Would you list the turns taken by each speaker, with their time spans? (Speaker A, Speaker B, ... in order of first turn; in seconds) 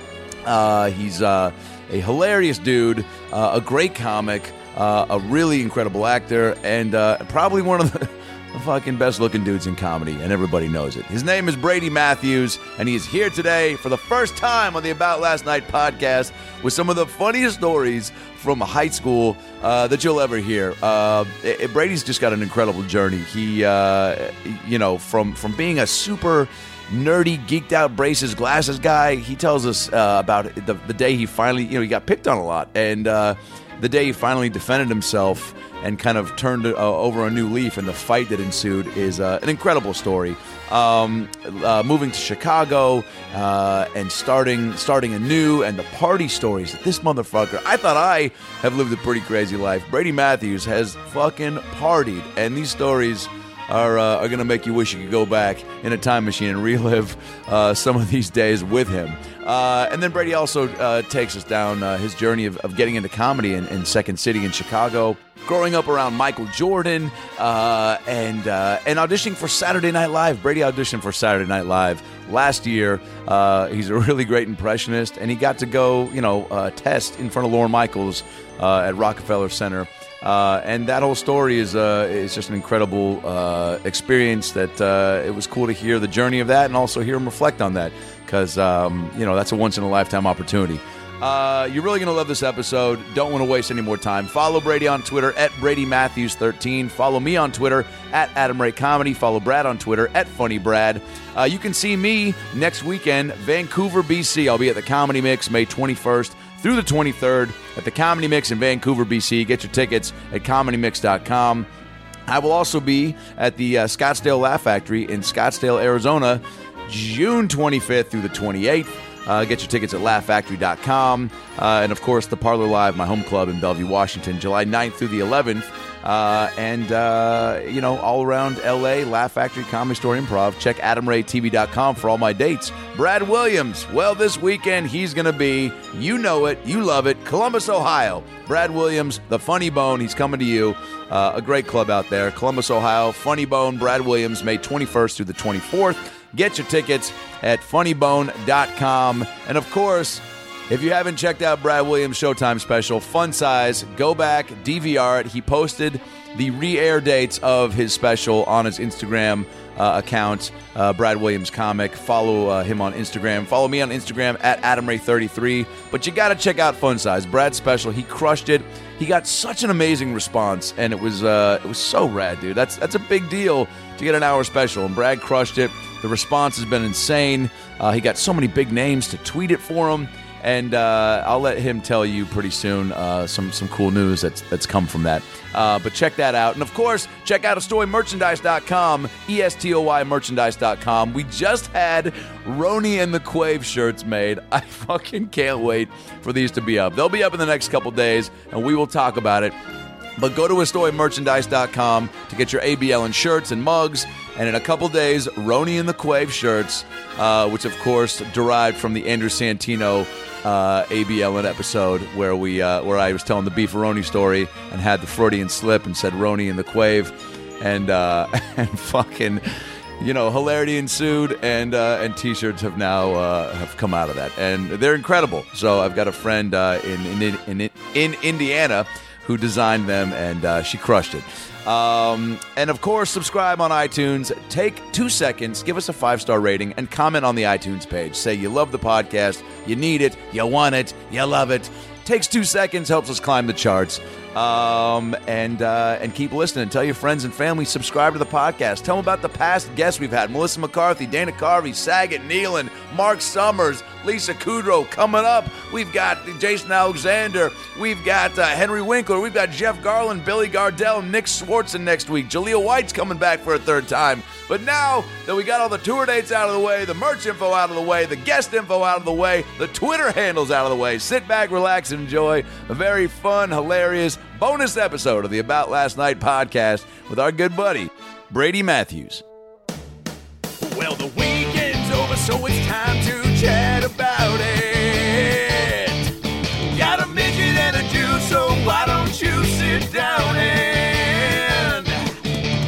Speaker A: 0.4-111.7, 112.3-199.5, 200.2-279.2, 280.6-292.2